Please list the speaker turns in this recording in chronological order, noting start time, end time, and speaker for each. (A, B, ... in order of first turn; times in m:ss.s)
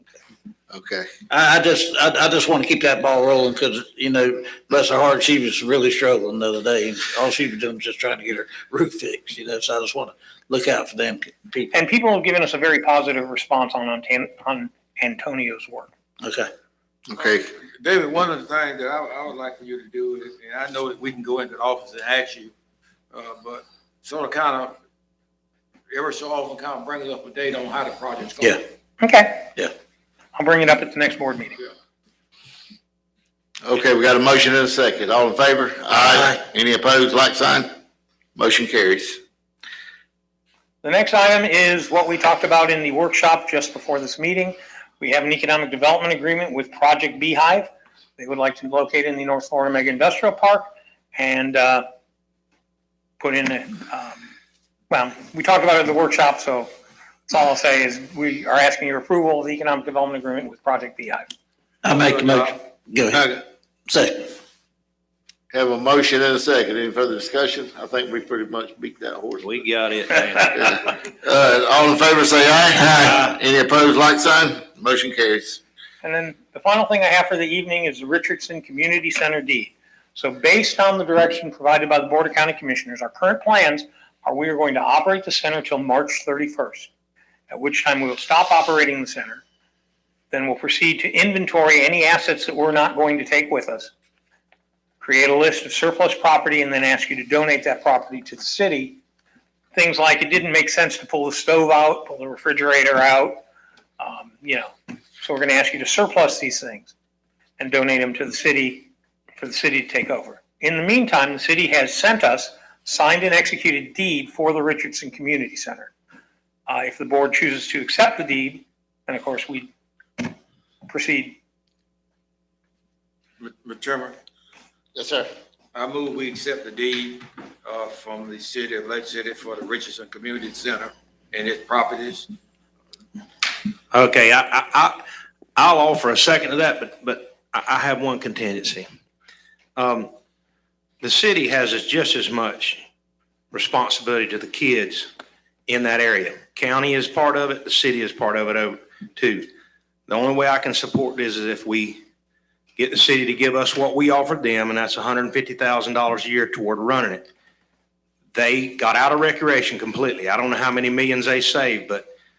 0:00.7-0:01.1 A
0:01.3-0:11.7 B
0:11.7-0:15.9 C
0:16.2-0:16.5 B
0:17.1-0:17.5 A
0:17.9-0:22.5 D
0:23.2-0:24.8 D
0:25.9-0:28.5 D
0:28.2-0:28.6 B
0:29.0-0:29.5 C
0:30.4-0:31.6 C
0:33.6-0:37.7 A
0:36.0-0:36.4 B
0:38.4-0:39.2 A
0:40.8-0:51.8 C
0:53.2-0:54.3 C
0:54.9-0:56.7 C
0:57.3-1:01.3 C
1:01.8-1:04.3 B
1:05.5-1:09.5 A
1:09.4-1:10.9 E
1:10.6-1:15.6 A
1:13.0-1:13.4 E
1:16.0-1:26.9 C
1:27.5-1:29.4 C
1:30.3-1:33.9 C
1:35.0-1:39.0 C
1:39.7-1:43.4 C
1:44.0-1:46.9 C
1:47.6-1:55.9 C
1:56.7-2:00.3 C
2:00.9-2:01.4 C
2:03.6-2:04.1 D
2:05.0-2:05.3 A
2:05.8-2:12.2 D
2:13.9-2:15.0 E
2:15.6-2:18.9 E
2:19.8-2:20.1 E
2:21.0-2:22.8 E
2:23.5-2:25.1 E
2:25.7-2:29.5 E
2:30.1-2:32.0 E
2:32.8-2:37.3 E
2:38.4-2:42.1 E